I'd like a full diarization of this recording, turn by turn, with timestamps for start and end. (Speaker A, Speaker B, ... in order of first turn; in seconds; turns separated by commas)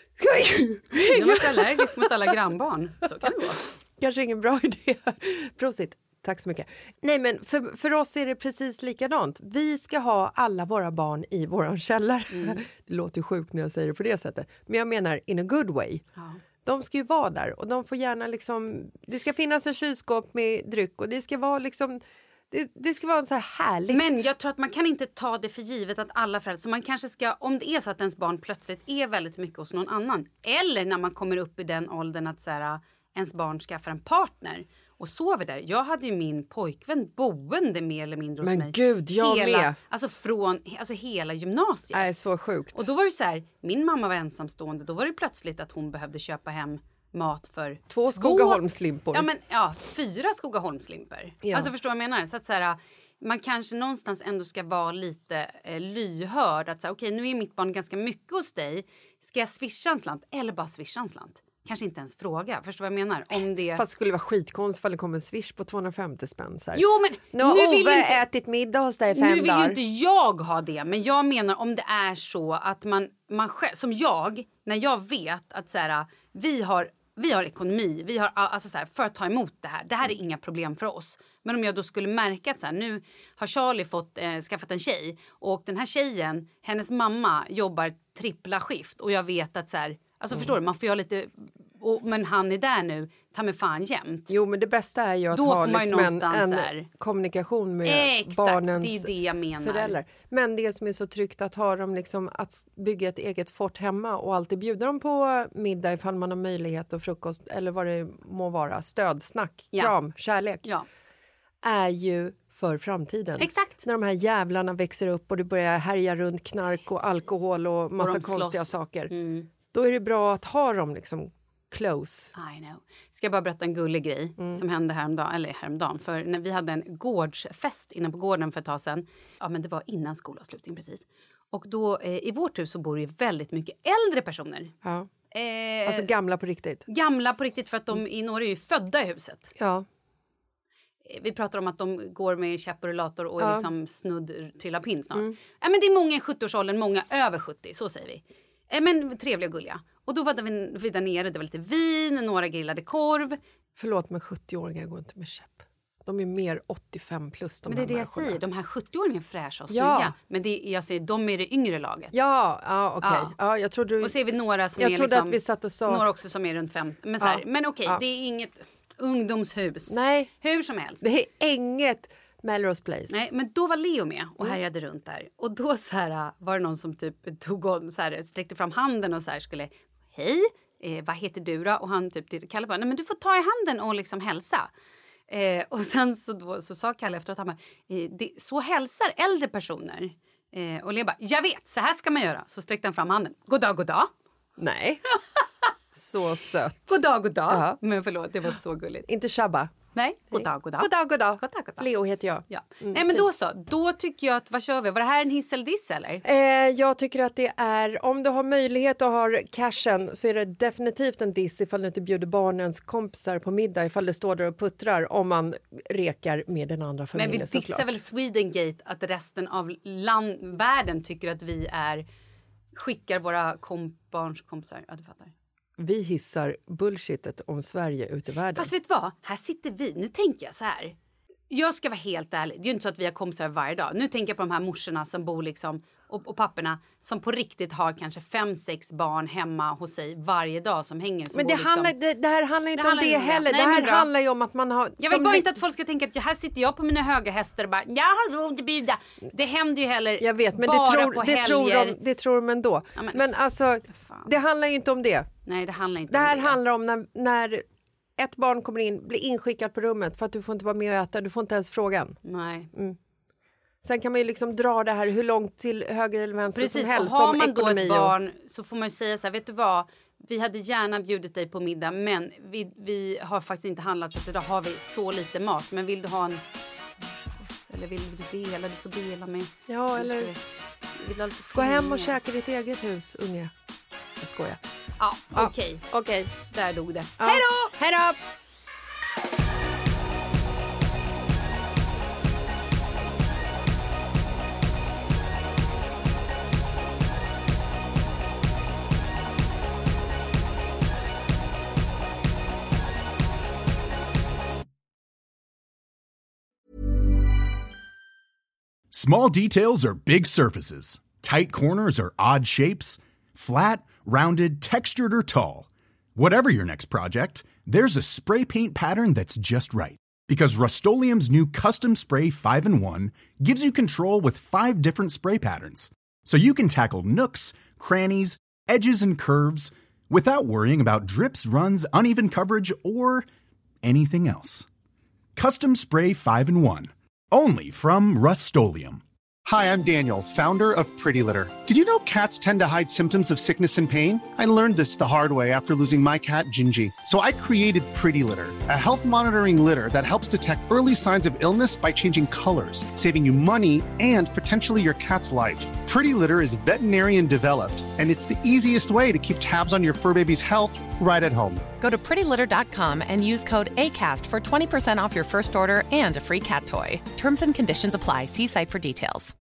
Speaker A: 0.2-2.3, Speaker B: 1.1-3.7, Speaker A: 4.0-16.0, Speaker B: 12.3-12.6, Speaker A: 16.6-24.3, Speaker B: 23.9-42.1, Speaker A: 38.4-39.8, Speaker A: 41.9-42.8, Speaker B: 42.7-63.8, Speaker A: 47.9-49.3, Speaker A: 51.4-51.7, Speaker A: 63.7-69.8, Speaker B: 66.7-68.2, Speaker B: 69.1-94.3, Speaker A: 94.3-110.6, Speaker B: 95.3-96.8, Speaker B: 97.8-100.0, Speaker A: 111.6-119.1, Speaker B: 113.4-113.8, Speaker B: 116.8-117.2, Speaker B: 118.0-119.5, Speaker A: 119.7-122.3, Speaker B: 122.3-134.7, Speaker A: 134.8-135.1, Speaker B: 135.3-136.1, Speaker A: 135.8-136.8, Speaker B: 136.9-139.5, Speaker A: 139.6-139.8, Speaker B: 141.0-153.4, Speaker A: 143.4-143.7, Speaker A: 153.8-158.4, Speaker B: 157.7-162.1, Speaker A: 159.7-160.1, Speaker A: 162.1-164.2, Speaker B: 163.0-163.3, Speaker B: 164.0-171.0, Speaker A: 164.8-166.1, Speaker A: 167.2-168.0, Speaker A: 169.9-170.3, Speaker A: 171.0-173.2, Speaker B: 173.1-184.7, Speaker B: 185.3-194.1, Speaker A: 194.6-195.0, Speaker A: 195.9-197.8, Speaker B: 196.9-199.1, Speaker A: 199.1-199.7, Speaker B: 199.9-201.9, Speaker A: 200.3-203.2, Speaker B: 202.5-206.2, Speaker A: 206.2-217.8, Speaker B: 217.2-222.0, Speaker B: 222.7-225.3, Speaker A: 225.8-228.7, Speaker B: 228.5-230.9, Speaker B: 231.5-241.9, Speaker A: 241.3-245.5, Speaker B: 242.8-244.1, Speaker B: 245.0-252.0, Speaker A: 250.2-255.3, Speaker B: 252.9-253.2, Speaker B: 253.9-254.3, Speaker B: 255.4-256.6, Speaker A: 256.1-257.6, Speaker A: 258.2-262.2, Speaker B: 262.2-262.7, Speaker A: 263.8-268.1, Speaker B: 266.5-280.4, Speaker A: 279.7-280.3, Speaker B: 280.9-282.2, Speaker A: 281.5-283.5, Speaker A: 284.2-284.6, Speaker B: 285.0-285.9, Speaker A: 285.3-286.3, Speaker B: 286.5-287.7, Speaker A: 287.2-288.2, Speaker C: 308.9-333.2, Speaker C: 333.8-334.6, Speaker C: 335.4-339.0, Speaker D: 339.4-361.7, Speaker E: 361.8-369.3